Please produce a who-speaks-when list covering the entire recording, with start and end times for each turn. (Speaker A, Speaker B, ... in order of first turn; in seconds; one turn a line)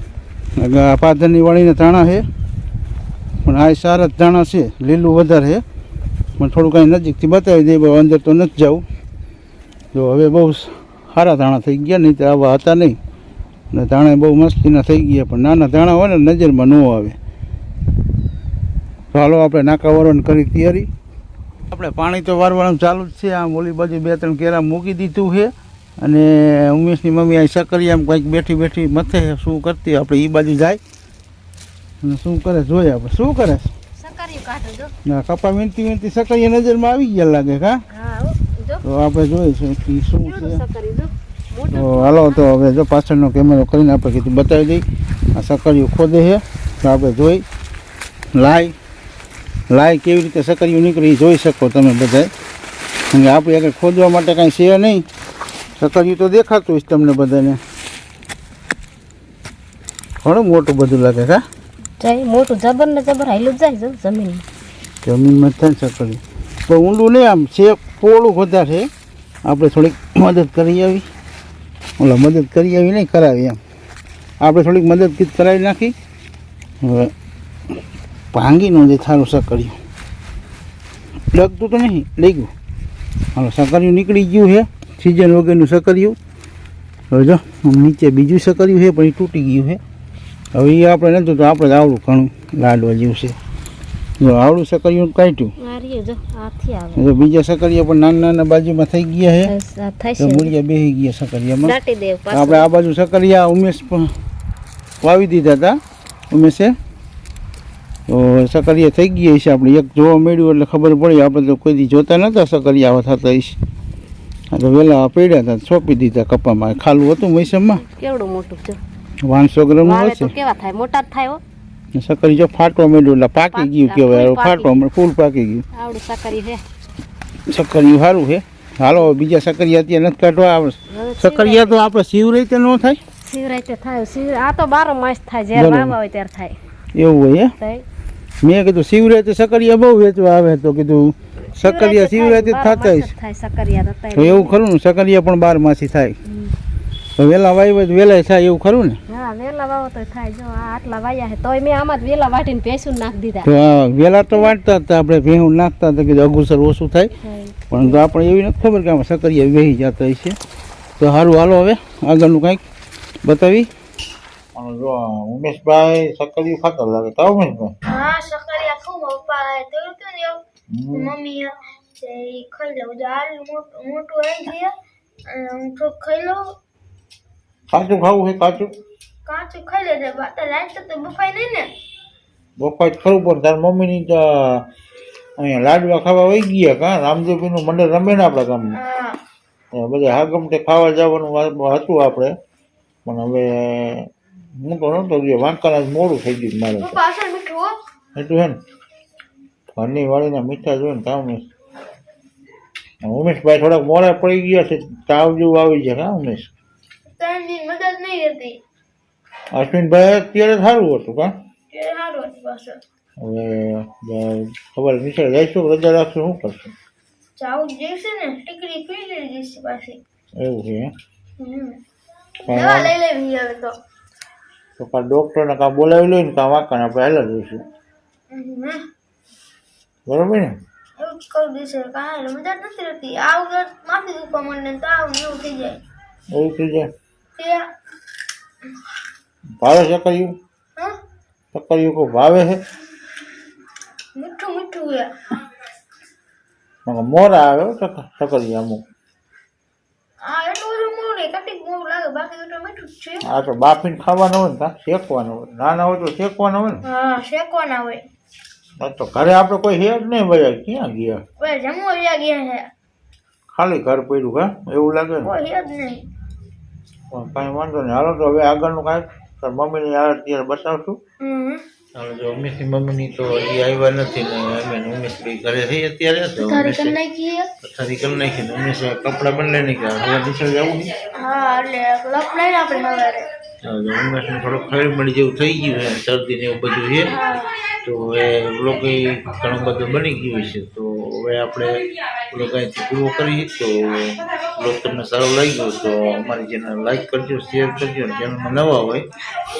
Speaker A: 0.6-2.3
Speaker A: 3.5-5.6
Speaker A: 6.4-8.8
Speaker A: 9.9-13.0
Speaker A: 13.7-17.2
Speaker A: 19.1-20.9
Speaker A: 21.7-30.8
Speaker A: 32.0-33.7
Speaker B: 34.0-34.9
Speaker A: 35.1-37.8
Speaker B: 37.9-38.9
Speaker A: 38.8-40.6
Speaker B: 40.2-42.5
Speaker A: 41.7-47.5
Speaker A: 48.3-48.8
Speaker A: 49.7-52.3
Speaker A: 53.1-55.1
Speaker A: 55.8-57.6
Speaker A: 60.2-61.4
Speaker B: 62.0-64.4
Speaker A: 65.0-68.9
Speaker A: 69.5-71.0
Speaker A: 72.0-73.6
Speaker A: 74.4-76.0
Speaker A: 76.8-77.1
Speaker A: 78.3-79.8
Speaker A: 81.3-82.5
Speaker A: 83.3-86.2
Speaker A: 87.1-89.8
Speaker A: 90.5-93.4
Speaker A: 94.2-95.5
Speaker B: 95.6-97.0
Speaker A: 97.0-99.5
Speaker B: 99.5-100.5
Speaker A: 100.2-101.8
Speaker B: 101.6-102.7
Speaker A: 102.3-104.1
Speaker A: 105.0-105.8
Speaker A: 106.3-106.8
Speaker A: 108.1-113.6
Speaker A: 114.5-117.8
Speaker B: 117.6-118.8
Speaker A: 119.2-120.3
Speaker B: 119.8-121.4
Speaker A: 121.9-125.7
Speaker B: 123.5-124.8
Speaker B: 125.7-126.6
Speaker A: 127.5-133.0
Speaker B: 130.9-131.8
Speaker B: 133.2-136.6
Speaker A: 135.6-135.9
Speaker A: 136.9-137.5
Speaker B: 137.6-137.8
Speaker A: 138.4-143.1
Speaker B: 141.6-144.6
Speaker A: 144.1-146.2
Speaker B: 146.3-146.5
Speaker A: 147.2-149.0
Speaker B: 149.1-153.5
Speaker A: 153.4-157.1
Speaker B: 157.2-158.0
Speaker A: 157.7-160.4
Speaker A: 161.0-162.6
Speaker A: 163.2-163.7
Speaker C: 164.6-167.7
Speaker D: 167.9-174.7
Speaker C: 170.7-171.1
Speaker D: 175.3-176.6
Speaker C: 177.7-178.7
Speaker D: 179.3-181.7
Speaker C: 182.6-184.7
Speaker C: 185.4-188.8
Speaker D: 188.7-189.2
Speaker C: 189.7-192.3
Speaker C: 193.1-194.1
Speaker C: 194.6-197.0
Speaker D: 196.8-197.8
Speaker C: 198.2-198.6
Speaker C: 199.8-201.4
Speaker C: 203.0-206.5
Speaker D: 207.1-208.6
Speaker C: 209.5-211.3
Speaker D: 211.7-212.8
Speaker C: 213.2-216.7
Speaker D: 217.4-220.0
Speaker C: 220.4-220.9
Speaker D: 221.4-221.8
Speaker D: 222.4-223.8
Speaker C: 222.5-222.9
Speaker C: 224.8-227.6
Speaker D: 228.3-228.8
Speaker C: 230.1-230.5
Speaker D: 231.0-235.8
Speaker C: 236.3-236.9
Speaker D: 237.4-237.6
Speaker C: 239.6-240.2
Speaker C: 241.5-242.6
Speaker D: 244.2-245.2
Speaker C: 246.9-248.8
Speaker D: 250.2-253.2
Speaker C: 253.2-256.8
Speaker D: 256.9-258.1
Speaker C: 258.8-261.2
Speaker D: 261.4-262.7
Speaker A: 263.6-265.3
Speaker D: 265.2-266.1
Speaker C: 267.1-271.0
Speaker D: 271.2-271.6
Speaker C: 271.9-277.0
Speaker D: 276.4-277.5
Speaker C: 277.6-281.1
Speaker D: 281.2-283.3
Speaker C: 283.6-287.1
Speaker D: 287.1-287.6
Speaker C: 287.8-299.1